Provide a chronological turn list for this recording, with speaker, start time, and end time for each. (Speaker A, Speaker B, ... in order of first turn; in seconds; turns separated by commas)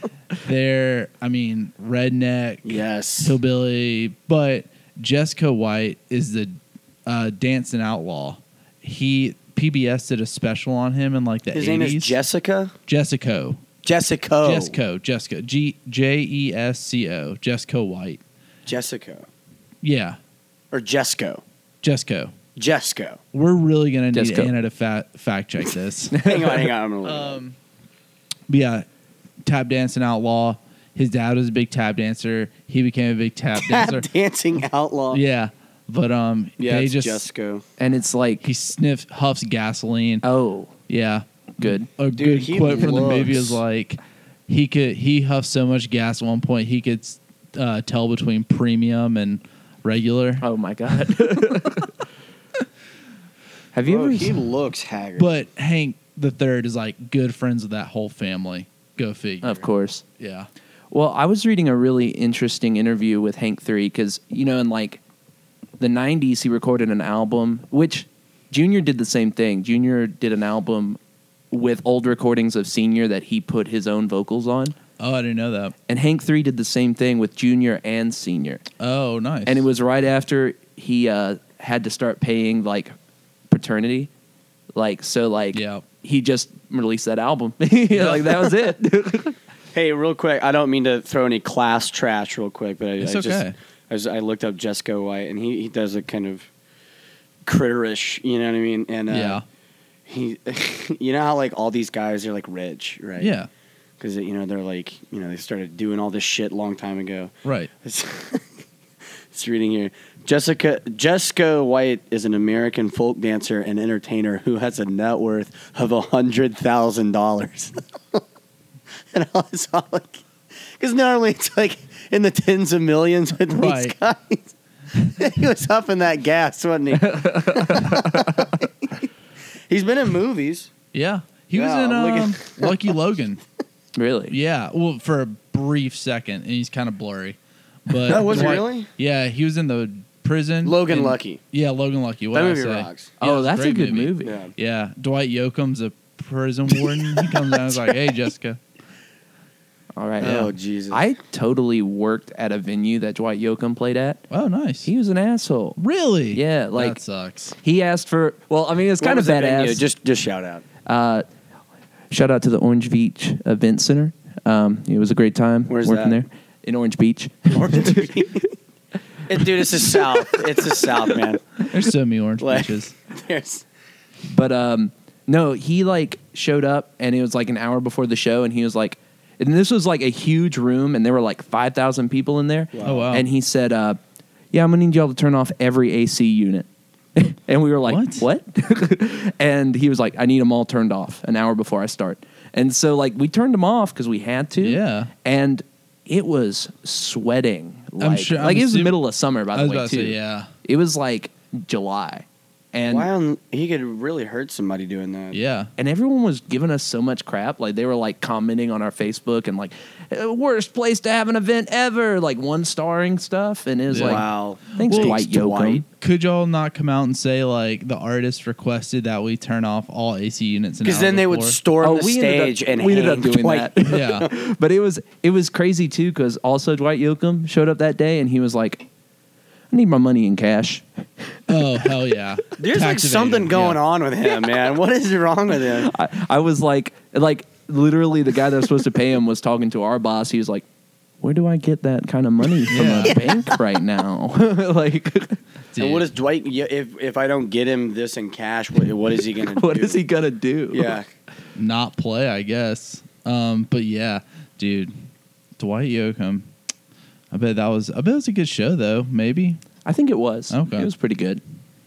Speaker A: 0.3-12.2, Speaker B: 2.6-3.4, Speaker B: 11.5-12.7, Speaker A: 12.9-13.6, Speaker B: 13.8-14.8, Speaker A: 14.4-18.2, Speaker B: 18.7-19.3, Speaker A: 19.8-20.2, Speaker B: 20.7-21.4, Speaker A: 21.8-22.3, Speaker B: 22.6-23.2, Speaker A: 23.3-26.3, Speaker C: 24.1-24.5, Speaker C: 26.1-26.5, Speaker B: 26.1-27.4, Speaker A: 27.0-27.6, Speaker A: 28.5-28.9, Speaker A: 29.4-34.1, Speaker B: 33.6-35.2, Speaker A: 35.1-37.3, Speaker B: 36.6-37.6, Speaker C: 37.8-38.4, Speaker A: 38.4-40.2, Speaker C: 40.2-40.7, Speaker A: 40.9-50.5, Speaker C: 41.6-41.9, Speaker B: 42.2-43.6, Speaker C: 50.4-52.0, Speaker C: 53.7-54.4, Speaker B: 53.9-55.5, Speaker A: 55.2-60.5, Speaker C: 59.4-60.0, Speaker C: 60.9-65.0, Speaker C: 65.8-71.0, Speaker C: 71.5-74.8, Speaker A: 75.0-75.8, Speaker C: 75.9-78.6, Speaker A: 78.8-79.7, Speaker C: 79.5-82.9, Speaker C: 83.5-84.1, Speaker C: 84.8-89.4, Speaker A: 85.5-85.8, Speaker A: 87.9-88.5, Speaker B: 89.7-96.5, Speaker A: 93.0-93.5, Speaker B: 97.5-99.4, Speaker A: 99.1-99.4, Speaker B: 100.1-103.3, Speaker A: 103.2-103.5, Speaker B: 104.0-108.5, Speaker A: 107.5-107.7, Speaker B: 109.3-118.2, Speaker B: 119.1-120.2, Speaker B: 120.8-124.5, Speaker A: 123.5-124.0, Speaker A: 125.0-125.2, Speaker B: 125.2-129.1, Speaker C: 127.0-128.5, Speaker B: 129.7-130.7, Speaker A: 130.9-133.4, Speaker B: 131.5-132.8, Speaker C: 133.9-134.3, Speaker A: 134.3-148.6, Speaker B: 138.1-138.9, Speaker B: 140.6-141.4, Speaker B: 142.3-143.1, Speaker C: 143.2-144.4, Speaker B: 144.2-144.5, Speaker B: 147.2-147.9, Speaker C: 150.0-154.2, Speaker B: 150.2-151.1, Speaker A: 154.3-154.9, Speaker C: 154.8-155.8, Speaker A: 155.8-157.6, Speaker C: 156.3-157.0, Speaker C: 157.6-159.8, Speaker B: 159.0-160.6, Speaker C: 160.8-161.2, Speaker C: 162.1-168.1, Speaker B: 165.7-166.2, Speaker B: 167.5-168.6, Speaker B: 169.3-171.5, Speaker C: 169.8-170.7, Speaker A: 171.6-172.9, Speaker B: 172.4-173.7, Speaker C: 174.3-184.0, Speaker B: 182.7-183.1, Speaker A: 182.8-183.3, Speaker C: 184.5-203.1, Speaker A: 187.9-188.2, Speaker A: 194.6-195.1, Speaker A: 198.0-199.0, Speaker A: 199.5-200.5, Speaker B: 202.9-205.4, Speaker A: 205.3-205.7, Speaker C: 205.8-215.8, Speaker A: 213.9-215.2, Speaker B: 214.0-215.8, Speaker A: 216.0-221.6, Speaker B: 220.8-224.3, Speaker C: 221.8-228.9, Speaker A: 223.9-224.3, Speaker C: 229.7-231.4, Speaker A: 231.5-233.8, Speaker B: 232.6-235.9, Speaker C: 235.7-240.7, Speaker C: 241.2-245.4, Speaker A: 242.7-243.2, Speaker B: 243.0-243.6, Speaker A: 245.7-246.1, Speaker B: 245.8-250.0, Speaker C: 249.3-251.0, Speaker B: 250.7-251.1, Speaker A: 251.6-254.9, Speaker A: 255.6-256.5, Speaker A: 257.3-259.6, Speaker C: 259.9-261.4, Speaker A: 260.5-260.9